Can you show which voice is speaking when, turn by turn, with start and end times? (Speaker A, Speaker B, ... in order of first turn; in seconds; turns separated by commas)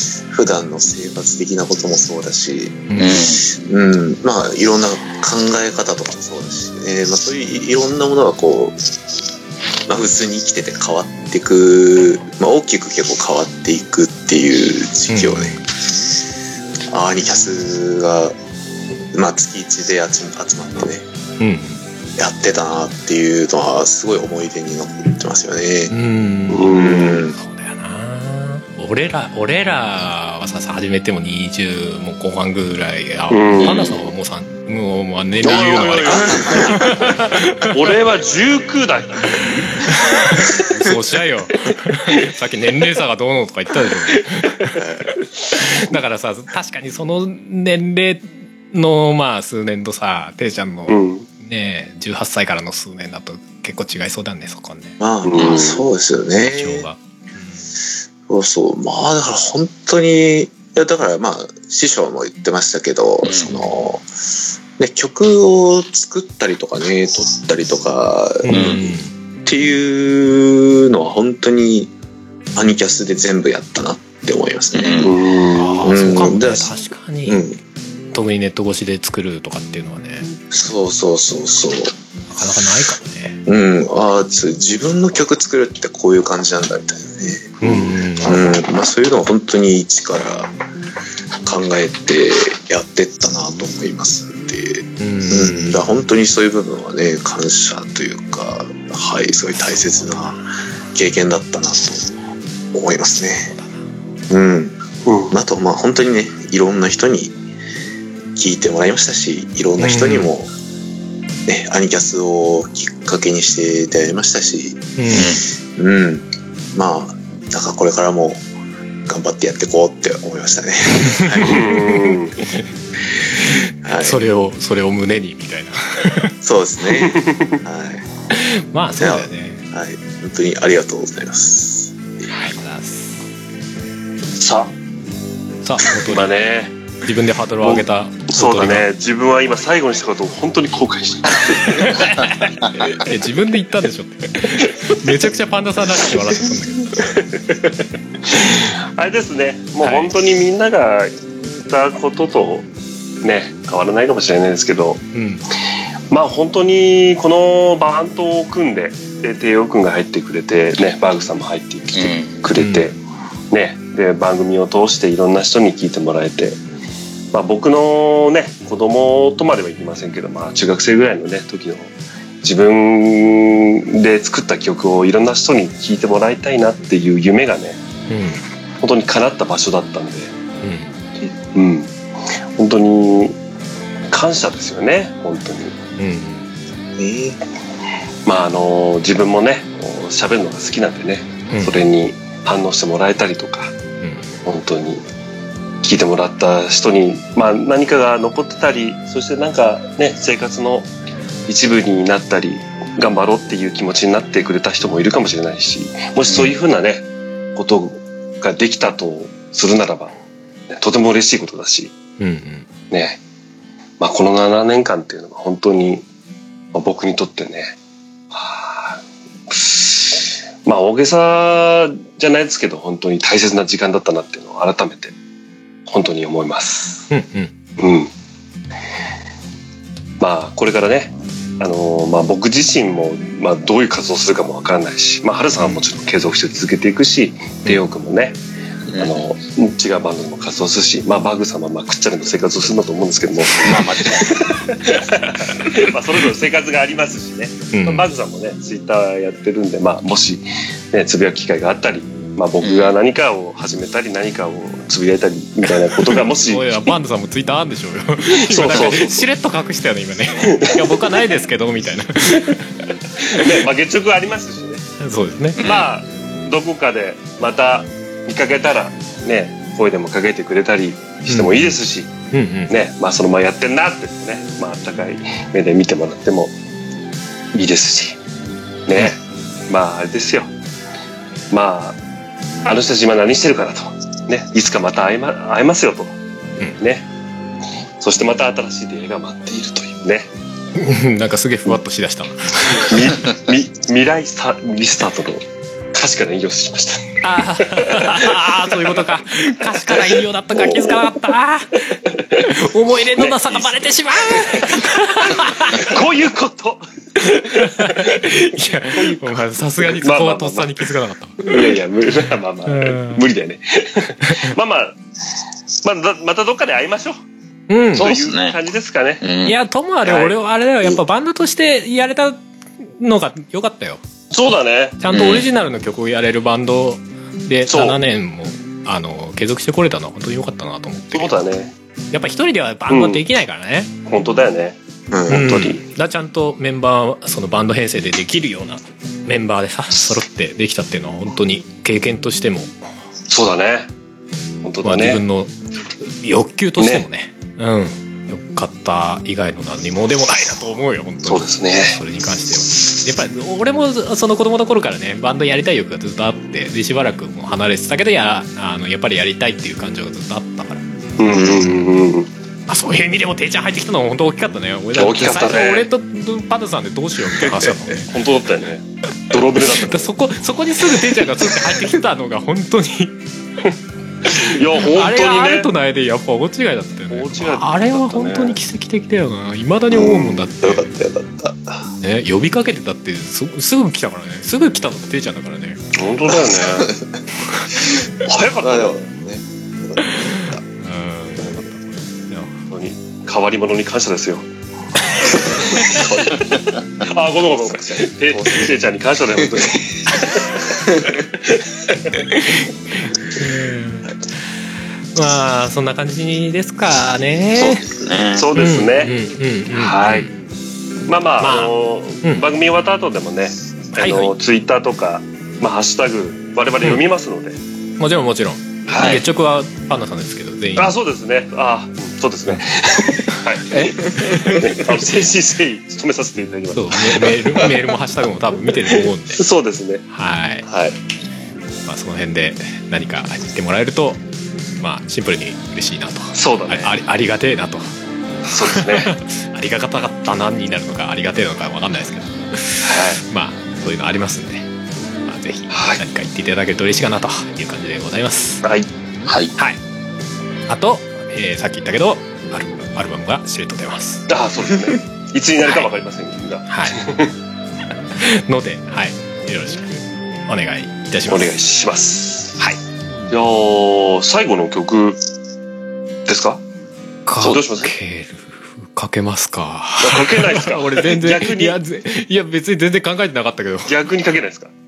Speaker A: 0.3-2.8, Speaker B: 2.9-3.2, Speaker C: 3.0-3.4, Speaker A: 3.5-8.8, Speaker A: 9.9-15.6, Speaker B: 15.1-15.6, Speaker A: 16.9-18.3, Speaker A: 19.1-21.0, Speaker B: 21.4-21.8, Speaker A: 22.2-25.9, Speaker B: 25.9-37.8, Speaker D: 26.5-27.2, Speaker A: 26.7-27.3, Speaker D: 33.3-34.0, Speaker C: 33.6-34.0, Speaker D: 35.4-37.2, Speaker C: 35.6-36.2, Speaker A: 36.0-37.0, Speaker D: 37.7-39.8, Speaker B: 39.9-44.7, Speaker D: 44.2-44.7, Speaker A: 44.8-45.1, Speaker B: 45.5-55.0, Speaker D: 50.9-51.3, Speaker A: 55.0-56.9, Speaker D: 55.2-55.8, Speaker B: 56.4-57.6, Speaker A: 58.3-64.0, Speaker C: 63.2-63.6, Speaker A: 64.8-68.9, Speaker B: 68.4-69.1, Speaker C: 68.5-68.8, Speaker A: 69.5-71.9, Speaker A: 72.5-75.1, Speaker C: 74.7-75.1, Speaker D: 75.0-75.9, Speaker B: 75.5-77.4, Speaker A: 75.8-76.7, Speaker A: 77.3-77.6, Speaker B: 78.1-80.3, Speaker A: 80.5-81.9, Speaker B: 82.3-83.4, Speaker A: 83.5-90.5, Speaker B: 87.6-88.6, Speaker A: 91.4-100.4, Speaker B: 95.0-95.9, Speaker B: 99.5-100.4, Speaker A: 100.9-102.1, Speaker A: 102.7-103.5, Speaker B: 103.5-103.9, Speaker A: 104.3-104.7, Speaker D: 105.0-105.4, Speaker A: 105.3-107.3, Speaker A: 108.3-110.5, Speaker B: 109.8-110.3, Speaker A: 111.5-115.2, Speaker B: 115.0-115.3, Speaker C: 115.1-115.4, Speaker A: 115.8-118.4, Speaker A: 119.1-121.8, Speaker B: 121.1-122.6, Speaker D: 121.4-122.4, Speaker B: 123.4-126.3, Speaker A: 123.8-124.2, Speaker A: 126.4-128.0, Speaker D: 127.0-127.6, Speaker B: 128.3-129.6, Speaker A: 129.0-131.9, Speaker B: 132.3-133.2, Speaker D: 134.3-134.7, Speaker B: 135.6-136.3, Speaker D: 136.1-136.7, Speaker B: 137.0-138.8, Speaker D: 137.6-142.3, Speaker B: 141.7-147.1, Speaker D: 148.3-151.1, Speaker B: 149.8-150.1, Speaker D: 151.7-152.7, Speaker D: 153.2-155.0, Speaker B: 155.1-155.4, Speaker D: 156.1-163.0, Speaker C: 161.9-162.4, Speaker B: 162.6-162.9, Speaker D: 163.5-166.6, Speaker D: 167.3-177.8, Speaker B: 178.1-178.4, Speaker D: 178.8-180.3, Speaker B: 180.6-180.9, Speaker D: 181.5-181.9, Speaker D: 182.6-183.4, Speaker D: 184.1-185.8, Speaker B: 186.0-186.5, Speaker A: 187.0-187.4, Speaker D: 188.2-193.7, Speaker B: 191.5-191.8, Speaker B: 194.0-194.4, Speaker D: 194.4-195.0, Speaker D: 195.8-200.9, Speaker D: 201.5-210.1, Speaker C: 206.3-206.6, Speaker D: 210.7-211.9, Speaker B: 212.2-212.7, Speaker D: 212.9-213.2, Speaker D: 214.0-216.1, Speaker D: 216.7-217.7, Speaker D: 218.3-225.1, Speaker D: 225.8-227.1, Speaker B: 227.1-227.5, Speaker D: 227.8-228.1, Speaker D: 230.2-238.4, Speaker C: 238.9-239.2, Speaker D: 239.0-256.8, Speaker C: 243.5-244.4, Speaker B: 247.7-248.1, Speaker C: 252.6-252.9, Speaker B: 256.1-262.7, Speaker D: 258.4-259.3, Speaker D: 260.4-261.2, Speaker D: 263.2-264.8, Speaker B: 265.0-265.6, Speaker C: 265.6-265.9, Speaker D: 265.6-272.1, Speaker B: 271.3-271.7, Speaker B: 272.3-272.7, Speaker D: 272.7-276.5, Speaker D: 277.5-278.2, Speaker D: 278.9-280.5, Speaker D: 281.5-282.0, Speaker D: 282.6-286.2, Speaker D: 286.8-287.1, Speaker D: 288.0-290.3, Speaker B: 290.7-293.1, Speaker D: 292.7-299.0, Speaker B: 297.2-306.0, Speaker D: 299.7-301.1, Speaker D: 302.0-302.5, Speaker D: 303.1-309.2, Speaker B: 307.4-311.7, Speaker D: 309.8-310.8, Speaker D: 311.4-315.0, Speaker B: 312.7-313.2, Speaker D: 315.8-317.2, Speaker B: 317.7-318.2, Speaker C: 317.9-318.6, Speaker D: 317.9-319.2, Speaker C: 319.2-319.6, Speaker B: 319.4-322.4, Speaker D: 320.0-320.3, Speaker B: 323.0-324.0, Speaker D: 324.3-325.0, Speaker B: 325.0-331.3, Speaker C: 325.1-325.4, Speaker D: 327.7-328.0, Speaker D: 331.1-331.7, Speaker B: 332.1-333.9, Speaker D: 332.9-333.2, Speaker D: 334.1-334.8, Speaker A: 335.1-335.5, Speaker D: 335.3-335.8, Speaker B: 335.3-342.7, Speaker D: 343.3-343.9, Speaker D: 344.6-345.2, Speaker B: 344.8-345.5, Speaker B: 346.1-361.9, Speaker D: 346.8-347.1, Speaker D: 351.2-352.0, Speaker D: 352.7-353.0, Speaker D: 361.2-362.3, Speaker B: 362.7-368.1, Speaker D: 364.9-365.9, Speaker D: 368.1-370.1, Speaker B: 369.6-373.1, Speaker D: 374.2-375.7, Speaker B: 374.3-380.9, Speaker D: 377.1-378.6, Speaker A: 379.9-381.9, Speaker B: 382.0-385.8, Speaker D: 385.9-386.9, Speaker A: 386.3-387.2, Speaker D: 388.2-389.0, Speaker A: 388.6-390.6, Speaker B: 390.1-392.6, Speaker D: 392.7-394.4, Speaker D: 395.2-402.2, Speaker A: 395.3-396.8, Speaker A: 397.6-398.7, Speaker B: 402.3-404.2, Speaker B: 405.1-407.8, Speaker C: 407.5-408.5, Speaker D: 408.3-409.1, Speaker B: 408.6-410.3, Speaker D: 409.7-410.3, Speaker D: 411.1-417.6, Speaker B: 411.4-411.7, Speaker B: 414.0-414.3, Speaker B: 418.0-420.9, Speaker D: 418.9-419.2, Speaker C: 418.9-419.2, Speaker D: 420.8-427.8, Speaker B: 423.3-424.8, Speaker A: 424.1-424.4, Speaker B: 426.7-429.4, Speaker D: 428.9-430.0, Speaker B: 430.1-430.6, Speaker A: 430.7-430.9, Speaker B: 431.9-434.2, Speaker B: 434.8-437.9, Speaker D: 436.3-436.9, Speaker D: 438.4-439.1, Speaker B: 438.6-444.7, Speaker D: 442.8-443.2, Speaker B: 445.2-448.6, Speaker D: 445.7-446.0, Speaker D: 448.6-448.9, Speaker C: 449.2-449.5, Speaker B: 450.7-454.3, Speaker D: 454.3-457.3, Speaker B: 456.7-457.0, Speaker B: 458.2-461.5, Speaker D: 461.3-462.6, Speaker D: 463.3-465.2, Speaker D: 466.3-466.6, Speaker B: 467.2-474.0, Speaker D: 467.4-467.9, Speaker D: 470.0-471.8, Speaker D: 473.9-474.7